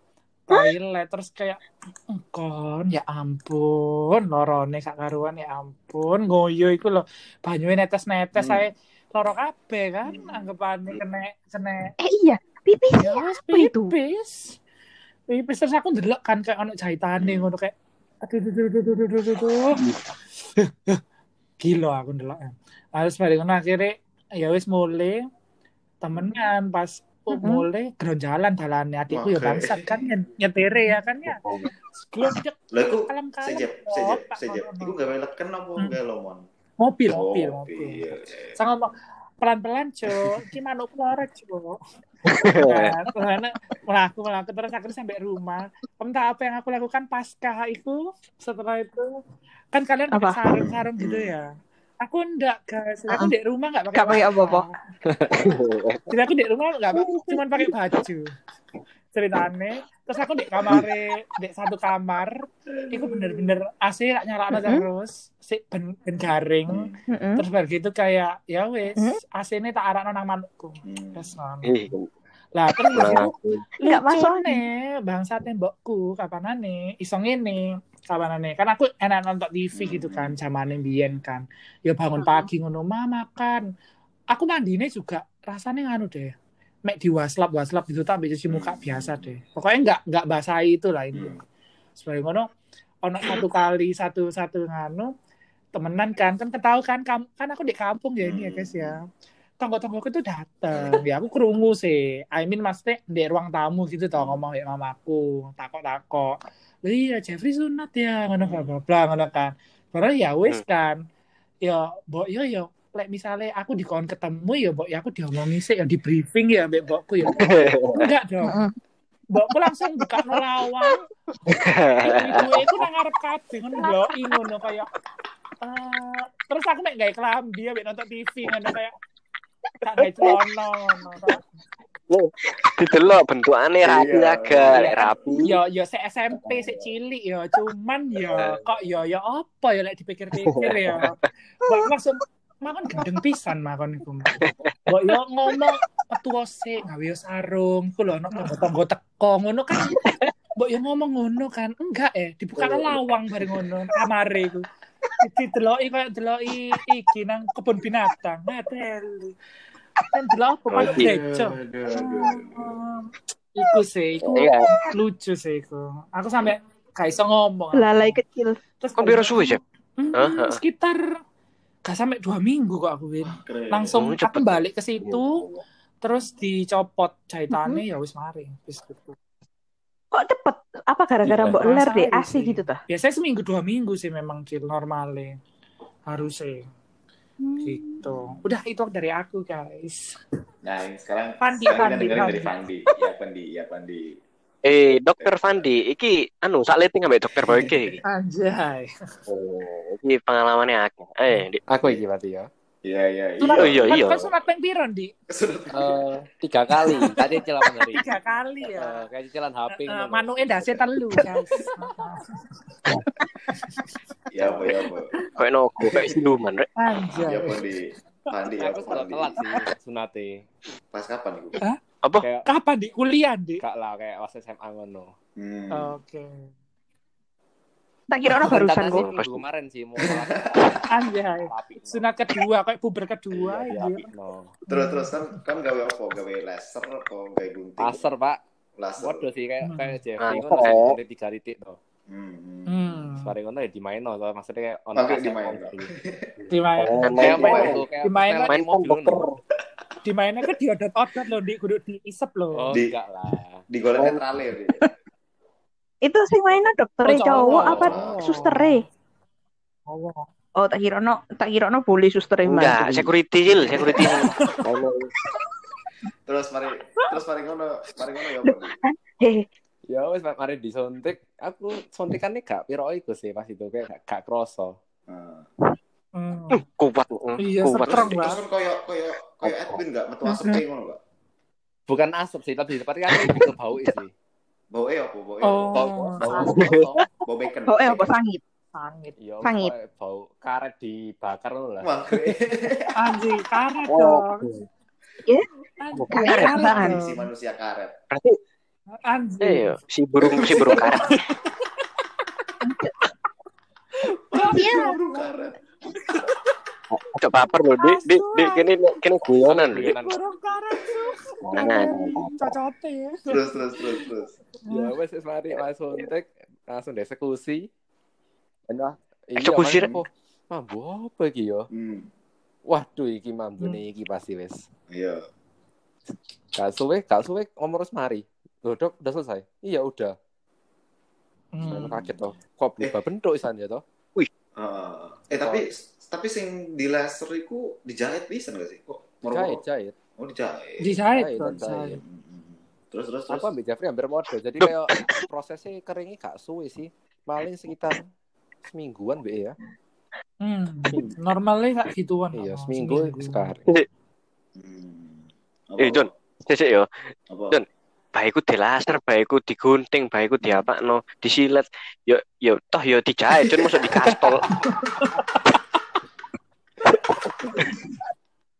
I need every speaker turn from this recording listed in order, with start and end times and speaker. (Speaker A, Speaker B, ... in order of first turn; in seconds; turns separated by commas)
Speaker A: 0.5-11.9, Speaker B: 8.3-8.7, Speaker B: 10.0-11.0, Speaker C: 12.0-13.9, Speaker A: 13.0-14.6, Speaker A: 15.3-17.7, Speaker B: 17.2-17.5, Speaker A: 18.2-19.8, Speaker A: 20.6-21.0, Speaker A: 21.6-25.2, Speaker A: 26.0-31.4, Speaker C: 27.4-27.6, Speaker B: 29.1-30.1, Speaker A: 32.0-35.0, Speaker B: 32.7-36.4, Speaker A: 36.8-38.0, Speaker B: 37.1-38.6, Speaker A: 38.6-41.8, Speaker D: 42.2-42.9, Speaker A: 42.5-49.2, Speaker A: 49.7-51.5, Speaker C: 50.1-50.5, Speaker B: 50.5-51.3, Speaker A: 52.0-54.8, Speaker C: 53.9-54.7, Speaker E: 55.0-55.4, Speaker D: 55.3-56.0, Speaker A: 56.1-58.3, Speaker C: 56.9-57.7, Speaker A: 59.1-72.0, Speaker B: 62.7-63.4, Speaker C: 64.6-64.8, Speaker B: 66.7-67.0, Speaker C: 67.1-67.4, Speaker B: 70.8-71.4, Speaker D: 71.6-72.0, Speaker A: 72.5-83.6, Speaker D: 72.9-73.5, Speaker C: 73.8-74.6, Speaker B: 79.7-80.4, Speaker C: 82.2-82.5, Speaker A: 84.3-86.3, Speaker A: 86.9-91.4, Speaker B: 88.5-89.3, Speaker A: 92.0-92.5, Speaker A: 93.0-95.1, Speaker A: 95.7-99.0, Speaker B: 98.2-99.0, Speaker A: 99.6-111.0, Speaker B: 100.7-101.0, Speaker B: 104.1-104.4, Speaker B: 108.4-108.7, Speaker A: 111.6-118.6, Speaker D: 117.3-118.1, Speaker C: 118.4-118.8, Speaker A: 119.3-121.0, Speaker C: 120.3-120.9, Speaker D: 121.5-122.4, Speaker A: 122.0-124.9, Speaker C: 123.8-124.2, Speaker A: 125.6-128.9, Speaker A: 129.8-131.4, Speaker D: 132.1-135.5, Speaker B: 133.8-135.1, Speaker A: 134.6-154.7, Speaker D: 138.3-138.6, Speaker D: 140.5-141.1, Speaker D: 144.4-144.7, Speaker A: 155.2-159.3, Speaker A: 160.1-168.2, Speaker D: 160.7-161.1, Speaker B: 160.8-162.8, Speaker D: 164.3-164.7, Speaker C: 167.7-168.6, Speaker A: 168.8-171.2, Speaker D: 169.0-169.6, Speaker D: 170.1-170.6, Speaker A: 171.8-175.4, Speaker B: 173.2-174.0, Speaker D: 173.9-174.6, Speaker A: 176.0-179.2, Speaker C: 177.5-177.8, Speaker C: 180.1-182.8, Speaker B: 181.2-181.6, Speaker A: 181.6-185.4, Speaker A: 186.1-186.7, Speaker C: 187.4-188.0, Speaker A: 187.6-190.1, Speaker B: 188.0-188.4, Speaker B: 190.6-194.2, Speaker A: 191.4-192.5, Speaker D: 194.6-198.0, Speaker B: 195.2-195.7, Speaker B: 197.4-198.0, Speaker A: 198.0-198.9, Speaker D: 199.3-201.6, Speaker E: 201.7-202.5, Speaker B: 202.8-204.5, Speaker A: 203.4-205.1, Speaker D: 203.6-204.2, Speaker B: 205.3-206.1, Speaker E: 205.7-208.0, Speaker B: 206.8-207.2, Speaker A: 207.9-209.0, Speaker E: 208.6-210.9, Speaker A: 209.7-212.7, Speaker B: 214.3-215.1, Speaker D: 215.3-216.7, Speaker B: 215.8-216.2, Speaker A: 216.8-217.6, Speaker B: 217.2-219.5, Speaker E: 218.6-220.4, Speaker B: 220.9-221.6, Speaker E: 222.2-222.5, Speaker A: 222.4-223.6, Speaker E: 223.6-225.1, Speaker B: 225.4-226.0, Speaker A: 225.7-226.4, Speaker C: 228.1-229.1, Speaker E: 228.5-230.8, Speaker D: 228.9-229.4, Speaker B: 230.0-230.8, Speaker A: 230.9-234.1, Speaker E: 231.4-232.1, Speaker B: 233.3-233.7, Speaker E: 233.7-234.6, Speaker B: 234.7-238.0, Speaker A: 234.7-235.3, Speaker E: 237.8-238.4, Speaker B: 238.8-239.3, Speaker E: 239.0-241.8, Speaker A: 239.6-240.0, Speaker D: 240.2-241.0, Speaker B: 242.1-243.1, Speaker A: 242.7-243.3, Speaker E: 243.2-245.9, Speaker B: 244.9-246.3, Speaker A: 246.5-248.6, Speaker D: 246.8-247.8, Speaker E: 247.1-249.2, Speaker B: 247.2-247.8, Speaker D: 248.5-249.4, Speaker A: 250.0-252.7, Speaker E: 252.5-253.6, Speaker B: 253.7-254.9, Speaker D: 254.0-254.2, Speaker C: 256.0-258.8, Speaker A: 257.0-258.8, Speaker B: 257.5-258.2, Speaker A: 259.9-260.3, Speaker C: 260.6-263.1, Speaker D: 262.4-265.1, Speaker B: 263.5-264.2, Speaker C: 263.9-264.1, Speaker A: 264.0-264.6, Speaker B: 266.2-268.8, Speaker C: 268.7-269.4, Speaker E: 269.9-274.8, Speaker B: 275.1-275.5, Speaker A: 276.1-276.6, Speaker D: 276.5-278.3, Speaker A: 277.4-278.4, Speaker B: 277.8-281.0, Speaker C: 280.2-280.6, Speaker E: 281.9-284.1, Speaker B: 284.7-288.1, Speaker A: 285.4-286.6, Speaker E: 285.7-286.7, Speaker D: 286.5-286.9, Speaker C: 287.7-288.4, Speaker A: 288.7-289.2, Speaker E: 289.2-292.4, Speaker C: 289.4-289.7, Speaker B: 291.8-292.9, Speaker A: 292.9-294.6, Speaker D: 293.9-294.6, Speaker A: 295.8-297.3, Speaker D: 295.9-296.6, Speaker C: 296.1-297.0, Speaker B: 296.5-297.9, Speaker D: 298.1-298.4, Speaker A: 299.0-299.8, Speaker D: 299.4-301.2, Speaker B: 300.2-301.1, Speaker A: 300.6-301.3, Speaker C: 302.6-302.9, Speaker A: 304.1-305.3, Speaker B: 304.3-305.6, Speaker C: 304.5-304.9, Speaker D: 306.9-309.9, Speaker A: 307.7-308.7, Speaker E: 309.4-310.2, Speaker A: 309.8-314.1, Speaker D: 311.4-312.4, Speaker B: 313.3-314.3, Speaker A: 314.6-314.9, Speaker E: 314.7-317.7, Speaker E: 318.7-321.7, Speaker D: 319.4-319.9, Speaker B: 321.7-322.1, Speaker E: 322.7-324.6, Speaker B: 324.9-325.2, Speaker E: 326.5-330.1, Speaker A: 331.5-332.0, Speaker E: 331.6-333.8, Speaker B: 331.6-332.2, Speaker B: 334.6-339.6, Speaker E: 335.4-335.7, Speaker E: 339.3-339.9, Speaker B: 340.2-343.5, Speaker A: 340.8-342.0, Speaker E: 341.1-342.0, Speaker E: 343.3-348.1, Speaker E: 348.6-349.6, Speaker A: 350.4-353.6, Speaker E: 350.9-351.2, Speaker E: 352.3-353.7, Speaker B: 354.6-356.1, Speaker D: 355.8-356.9, Speaker B: 357.3-357.6, Speaker D: 357.5-364.6, Speaker B: 364.2-364.5, Speaker A: 364.5-365.2